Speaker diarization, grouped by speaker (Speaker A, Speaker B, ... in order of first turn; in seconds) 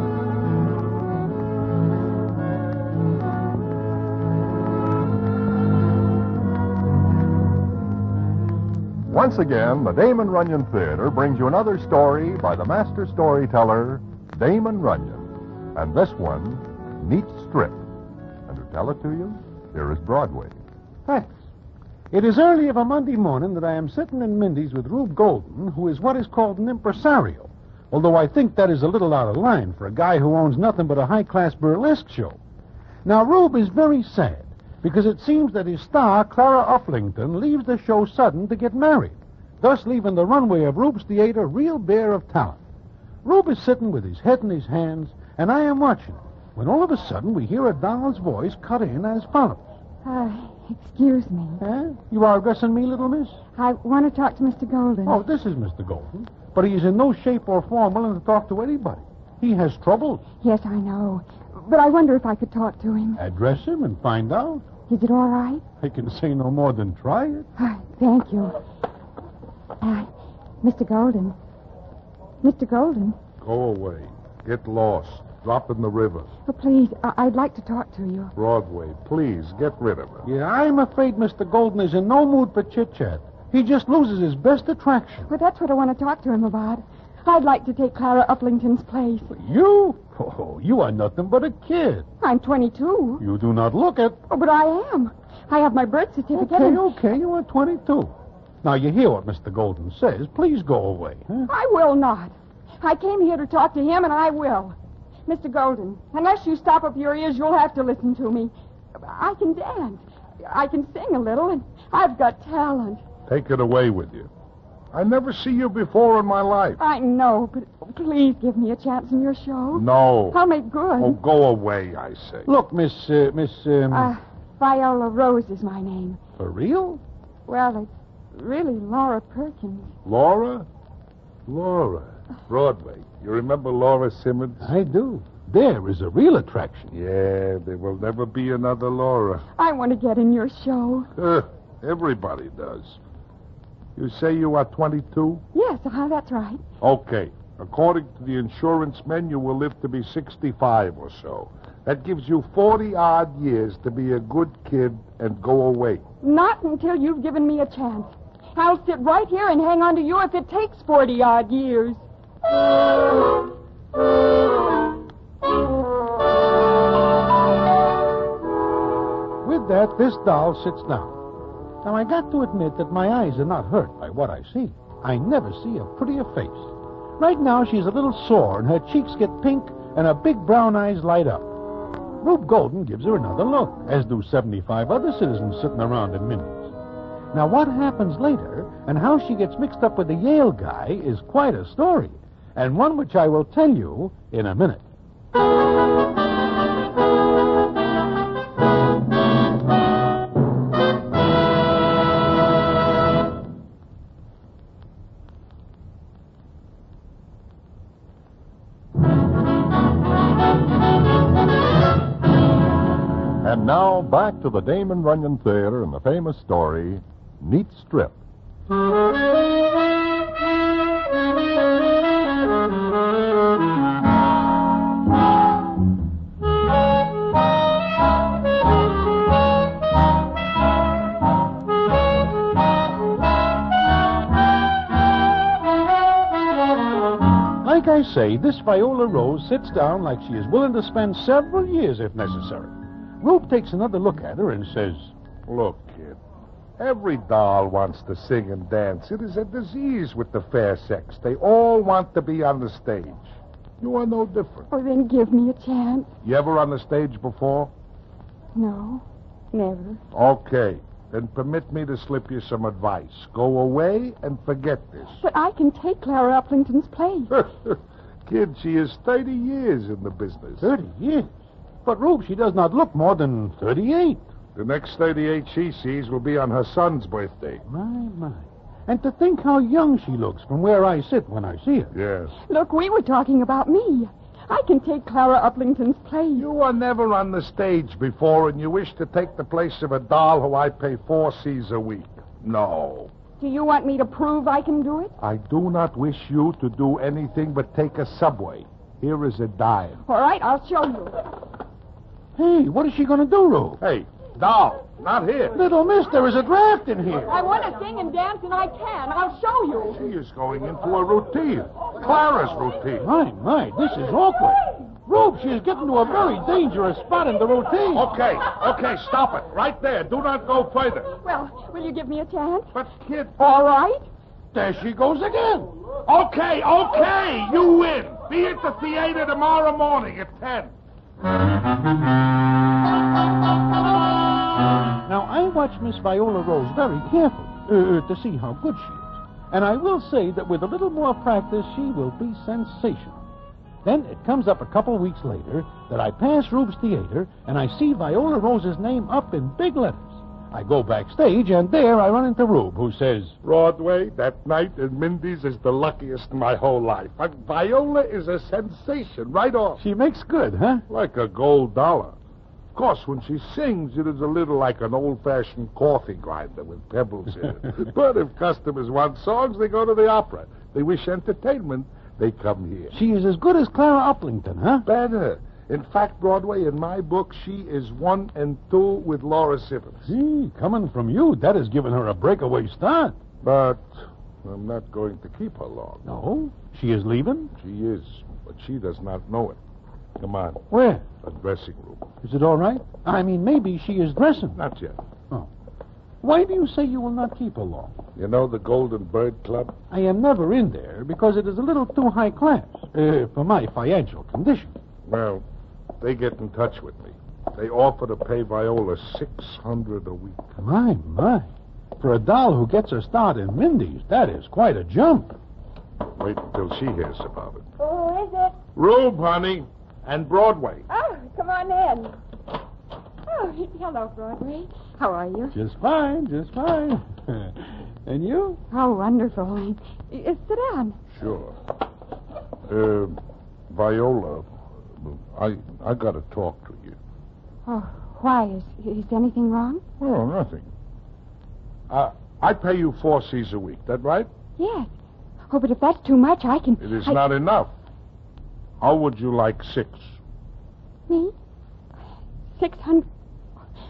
Speaker A: 9.1-17.8, 18.5-20.6, 213.4-218.2
Speaker B: 21.1-21.4, 22.1-32.4, 33.0-42.6, 43.2-49.7, 51.6-53.4, 55.1-60.2, 63.2-64.7, 65.8-67.5, 80.2-85.3, 89.3-92.1, 93.2-94.2, 96.3-101.5, 122.5-124.1, 126.4-127.0, 134.6-136.9, 169.4-171.2, 171.8-181.6, 182.2-186.7, 187.3-194.8, 237.6-245.1, 270.6-271.3, 271.9-274.2, 277.7-281.9, 302.4-303.8, 305.6-307.4, 313.0-318.1, 324.5-325.7, 335.1-343.2, 343.8-353.4, 359.8-360.9, 372.9-374.9, 380.1-383.2, 386.1-387.5, 390.7-391.1, 392.2-394.6, 396.2-398.0, 399.9-404.7, 410.6-415.4, 425.5-428.6
Speaker C: 50.0-51.6, 53.6-55.2, 60.4-63.2, 64.9-65.6, 67.6-68.6, 69.8-70.1, 70.6-71.4, 72.4-73.2, 76.5-78.3, 85.3-89.3, 92.2-93.2, 94.3-96.8, 101.5-104.8, 105.3-113.0, 116.8-121.2, 123.9-126.2, 127.5-129.9, 139.6-141.1, 145.5-146.6, 156.2-162.0, 254.7-256.1, 258.6-260.0, 265.2-267.3, 282.5-286.5, 293.4-295.1, 300.1-301.2, 307.3-310.0, 321.2-322.7, 323.4-324.1, 417.8-418.6, 420.9-422.1, 423.3-425.6, 428.7-431.0, 437.7-439.8, 444.6-444.9, 445.5-447.2, 451.1-451.3, 452.6-453.1
Speaker D: 73.4-76.3, 78.4-80.3, 113.3-114.3, 114.9-116.8, 119.7-120.4, 121.0-122.5, 130.1-130.7, 131.5-134.7, 136.9-139.4, 141.2-143.0, 143.9-145.4, 146.8-156.0, 245.5-246.2, 246.8-254.7, 256.2-257.7, 260.1-265.2, 267.3-270.7, 274.6-277.6, 281.9-282.3, 286.4-293.1, 295.2-300.0, 303.8-305.6, 309.9-313.1, 317.9-321.1, 322.7-323.4, 326.1-330.7, 353.4-359.8, 360.9-362.2, 362.7-372.9, 374.9-380.1, 383.4-383.9, 384.4-386.0, 387.6-389.6, 390.2-390.6, 391.2-392.1, 394.6-395.0, 398.1-399.8, 405.1-405.4, 406.0-410.5, 416.1-417.7, 418.8-420.9, 431.1-431.6, 432.7-433.2, 433.7-437.0, 440.0-440.7, 441.9-444.3, 446.8-447.7, 448.8-450.2